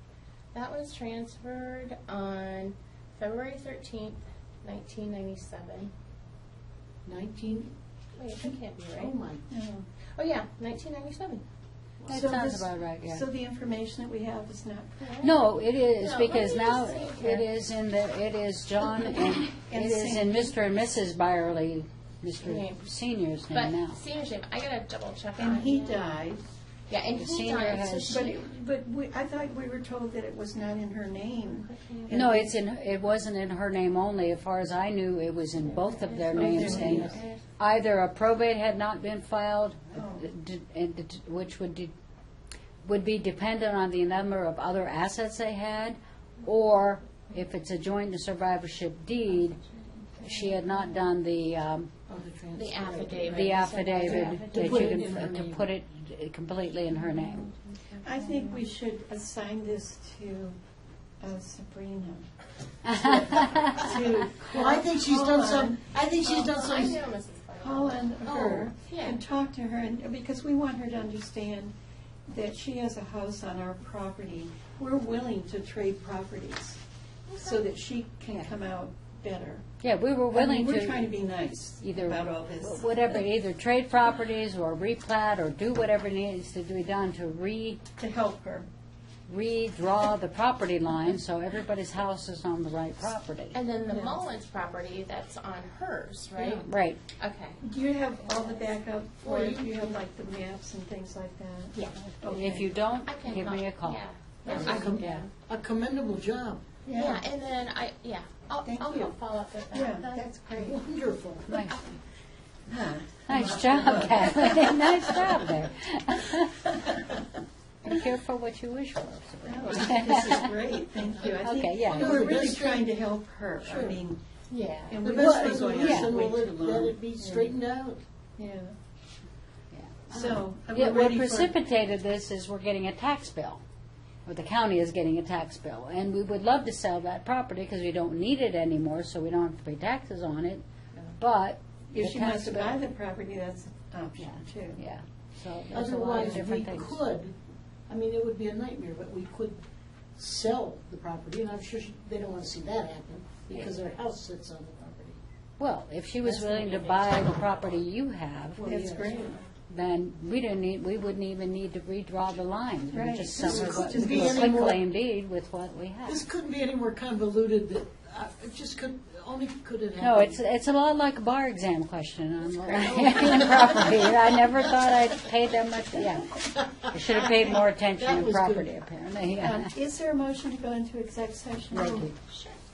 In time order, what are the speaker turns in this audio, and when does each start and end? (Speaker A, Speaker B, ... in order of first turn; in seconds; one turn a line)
Speaker A: 0.5-5.9
Speaker B: 7.0-7.7
Speaker A: 8.2-9.1
Speaker B: 8.4-9.4
Speaker C: 9.5-9.9
Speaker A: 10.2-11.4
Speaker D: 12.1-13.3
Speaker C: 12.1-15.2
Speaker A: 15.0-15.4
Speaker D: 15.2-24.0
Speaker A: 15.9-17.4
Speaker C: 19.6-20.6
Speaker A: 22.4-23.0
Speaker A: 23.5-26.2
Speaker C: 25.4-26.4
Speaker A: 26.9-28.5
Speaker D: 27.2-28.2
Speaker C: 28.1-32.6
Speaker A: 31.6-32.1
Speaker D: 32.1-41.9
Speaker A: 35.6-37.4
Speaker C: 36.3-37.2
Speaker B: 36.6-37.2
Speaker C: 40.0-40.2
Speaker D: 42.8-49.6
Speaker A: 49.4-50.6
Speaker D: 50.2-51.9
Speaker B: 52.1-55.7
Speaker A: 52.5-55.3
Speaker D: 53.3-57.5
Speaker A: 56.9-58.6
Speaker C: 58.0-60.6
Speaker C: 61.2-62.3
Speaker C: 62.8-65.8
Speaker D: 62.9-64.0
Speaker B: 64.5-67.0
Speaker A: 66.2-68.2
Speaker C: 67.6-71.7
Speaker B: 68.2-68.7
Speaker A: 68.8-69.2
Speaker C: 72.3-76.8
Speaker A: 77.3-77.7
Speaker C: 77.4-79.6
Speaker D: 79.8-81.1
Speaker C: 80.3-82.9
Speaker D: 81.8-87.8
Speaker C: 88.0-88.7
Speaker D: 89.3-93.6
Speaker A: 93.5-97.6
Speaker C: 93.9-94.2
Speaker B: 96.4-96.7
Speaker D: 96.7-97.0
Speaker C: 97.6-102.7
Speaker A: 98.2-98.7
Speaker B: 99.2-100.0
Speaker D: 102.3-105.2
Speaker A: 103.1-105.3
Speaker B: 104.5-106.6
Speaker C: 106.9-107.2
Speaker A: 106.9-110.7
Speaker C: 108.7-109.2
Speaker C: 109.7-110.8
Speaker B: 110.6-111.7
Speaker D: 111.5-111.9
Speaker C: 112.7-115.2
Speaker D: 113.3-116.7
Speaker D: 117.8-120.5
Speaker C: 119.5-124.2
Speaker D: 121.3-122.3
Speaker B: 121.9-122.9
Speaker B: 123.6-124.0
Speaker A: 124.5-125.0
Speaker C: 124.9-127.5
Speaker B: 125.0-128.0
Speaker D: 125.1-126.1
Speaker C: 128.4-128.8
Speaker D: 129.7-133.6
Speaker C: 130.1-131.5
Speaker D: 134.3-140.6
Speaker D: 141.2-142.8
Speaker C: 141.9-144.8
Speaker D: 144.2-147.0
Speaker B: 145.7-147.3
Speaker B: 147.9-149.6
Speaker B: 150.2-155.2
Speaker A: 153.5-154.0
Speaker D: 155.6-158.6
Speaker C: 158.6-159.4
Speaker B: 158.6-159.2
Speaker A: 158.9-159.4
Speaker D: 159.7-166.2
Speaker C: 162.9-164.6
Speaker B: 163.3-164.8
Speaker B: 166.1-170.4
Speaker D: 170.0-179.7
Speaker A: 172.5-173.6
Speaker B: 172.9-174.8
Speaker B: 176.5-178.7
Speaker C: 179.4-182.1
Speaker D: 181.7-182.2
Speaker A: 182.3-182.6